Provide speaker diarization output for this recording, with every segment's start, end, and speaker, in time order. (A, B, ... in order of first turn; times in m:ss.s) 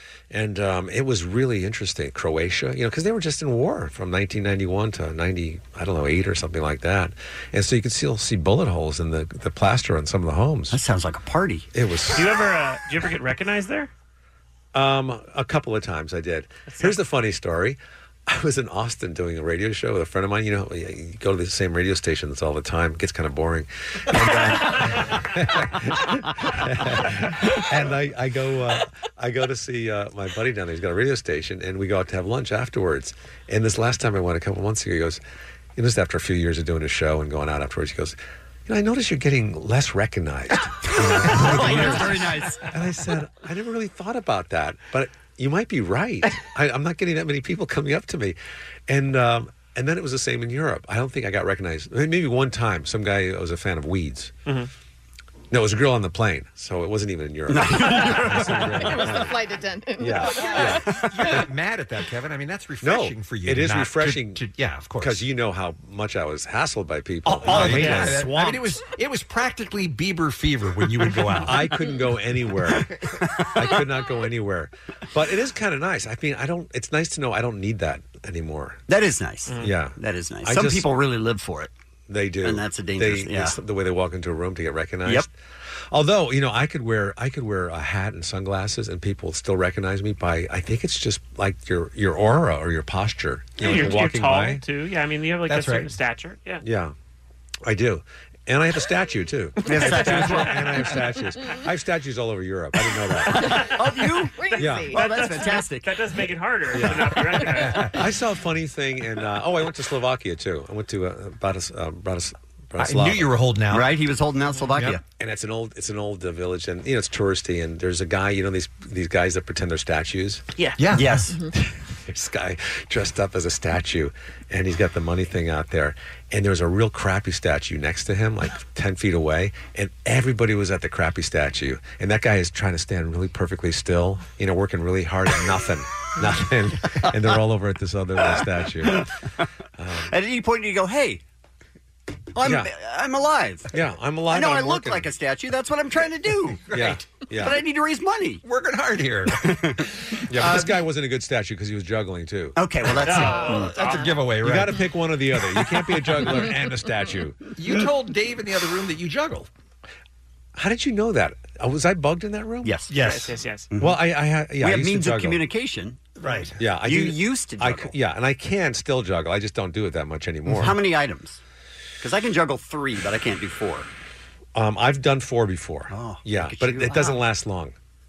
0:00.3-0:10.8 A
0:10.7-0:11.7 B
0:11.7-0:12.4 A
0:12.1-0:13.9 C
0:14.7-0:35.2 A
0:16.7-0:17.0 C
0:35.8-0:48.4 A
0:40.9-0:42.6 B
0:48.9-0:54.3 A
0:55.5-0:59.3 A
0:57.5-0:59.2 B
0:58.8-1:01.0 D
1:00.0-1:00.9 A
1:00.5-1:05.2 E
1:00.6-1:01.3 B
1:02.8-1:04.4 A
1:05.0-1:08.5 A
1:07.2-1:11.7 E
1:07.5-1:08.6 B
1:07.6-1:08.2 C
1:11.4-1:12.9 A
1:12.6-1:13.8 B
1:13.5-1:18.8 A
1:18.9-1:21.7 B
1:19.5-1:19.7 C
1:19.6-1:20.9 A
1:22.1-1:25.3 A
1:22.4-1:23.6 B
1:25.9-1:34.6 A
1:33.6-1:36.6 C
1:35.5-1:35.9 E
1:36.6-1:36.9 A
1:37.6-1:43.5 A
1:39.6-1:40.7 B
1:43.3-1:44.4 B
1:44.3-1:45.0 D
1:44.4-1:48.0 C
1:44.6-1:44.9 A
1:44.9-1:46.0 B
1:46.7-1:47.1 A
1:47.5-1:47.9 E
1:47.8-1:53.4 A
1:52.8-1:53.9 E
1:53.7-1:55.0 B
1:55.1-2:00.4 A
2:00.6-2:00.8 C
2:00.8-2:01.3 E
2:00.9-2:01.4 B
2:02.1-2:19.1 A
2:18.3-2:19.1 B
2:19.8-2:20.1 A
2:20.0-2:21.2 B
2:22.4-2:23.7 B
2:22.4-2:22.7 A
2:23.7-2:25.1 A
2:24.3-2:28.4 B
2:26.7-2:27.6 A
2:28.4-2:29.8 E
2:29.4-2:29.8 B
2:30.3-2:32.6 A
2:30.4-2:30.8 E
2:32.5-2:33.7 B
2:33.0-2:34.1 C
2:33.1-2:34.8 E
2:33.2-2:34.1 D
2:34.3-2:37.4 A
2:37.6-2:39.5 E
2:40.6-2:42.8 A
2:42.6-2:42.9 B
2:42.9-2:43.3 E
2:42.9-2:43.7 C
2:43.7-2:44.0 B
2:43.8-2:45.4 A
2:44.6-2:48.0 B
2:46.2-2:46.5 E
2:46.6-2:50.8 A
2:50.4-2:51.4 B
2:52.0-2:53.9 B
2:54.5-2:57.7 A
2:55.9-2:57.2 B